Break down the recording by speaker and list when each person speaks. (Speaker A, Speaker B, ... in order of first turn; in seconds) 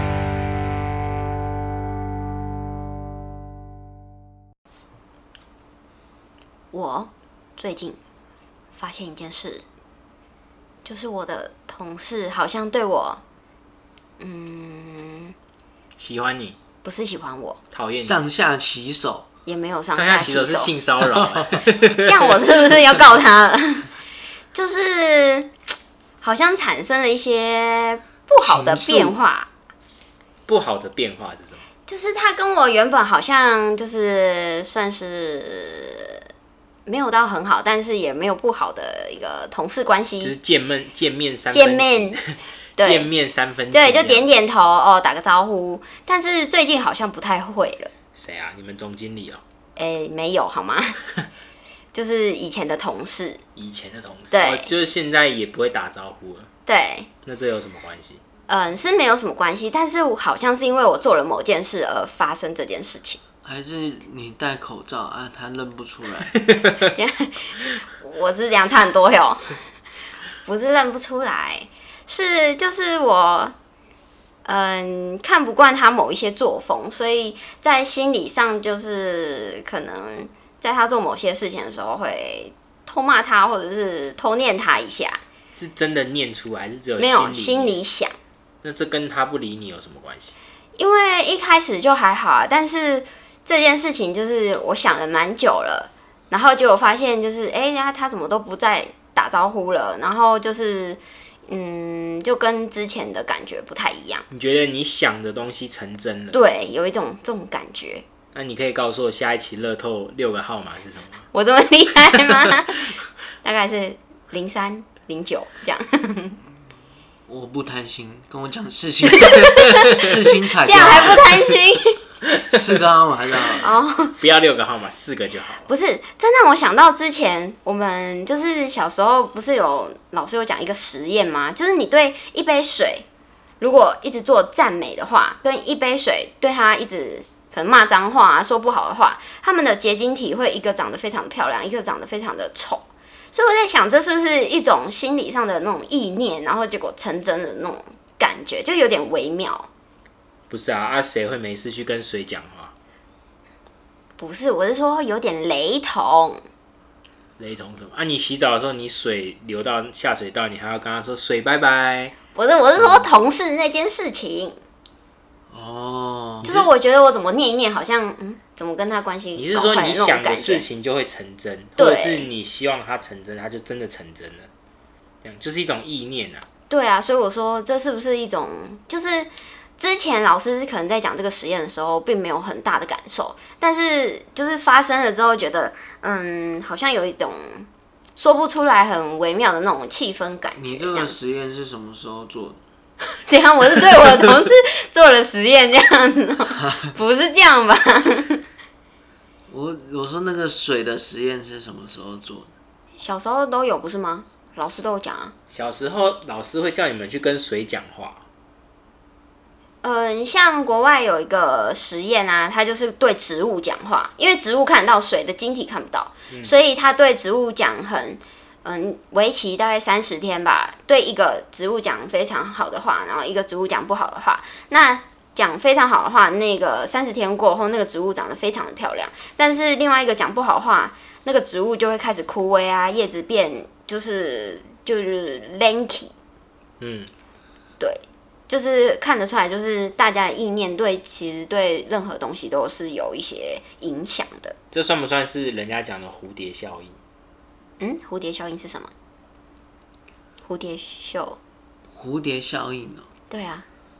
Speaker A: 6.7-8.0, 8.7-9.6, 10.8-13.2, 14.2-15.3, 16.8-17.6, 19.4-20.7, 21.9-23.9, 24.5-25.5, 26.2-29.5, 31.9-36.2, 36.9-40.4, 41.5-42.2, 42.8-43.1, 43.7-47.9, 49.8-51.0, 51.9-53.4, 54.3-54.7, 56.7-57.1, 58.5-63.2, 66.9-69.5, 70.4-73.5, 74.4-85.2, 87.0-88.1, 90.8-104.2, 106.3-108.0, 111.3-116.4, 119.1-120.0, 120.6-122.0, 123.6-124.2, 125.6-133.0, 133.6-149.7, 154.2-156.4, 162.3-164.6, 166.4-170.7, 171.8-172.3, 176.7-191.1, 193.1-198.4, 203.0-205.3, 209.8-236.1, 237.8-244.6, 247.8-248.9, 250.4-251.4, 253.3-253.7
Speaker B: 16.0-16.6, 17.7-18.2, 19.9-22.4, 30.5-31.6, 40.2-44.3, 48.1-49.4, 53.5-56.5, 57.2-58.2, 66.5-66.8, 85.5-87.8, 88.6-90.3, 104.3-106.4, 108.3-111.3, 119.4-119.9, 120.7-121.2, 124.2-125.7, 150.5-152.7, 157.4-162.1, 162.7-163.1, 166.4-166.7, 169.3-174.5, 175.2-176.4, 205.5-208.2, 236.8-237.1, 244.7-247.0
Speaker C: 17.9-19.2, 28.4-29.2, 63.4-66.3, 117.3-121.4, 122.5-123.7, 165.5-166.6, 190.6-192.6, 199.5-202.5, 251.9-253.1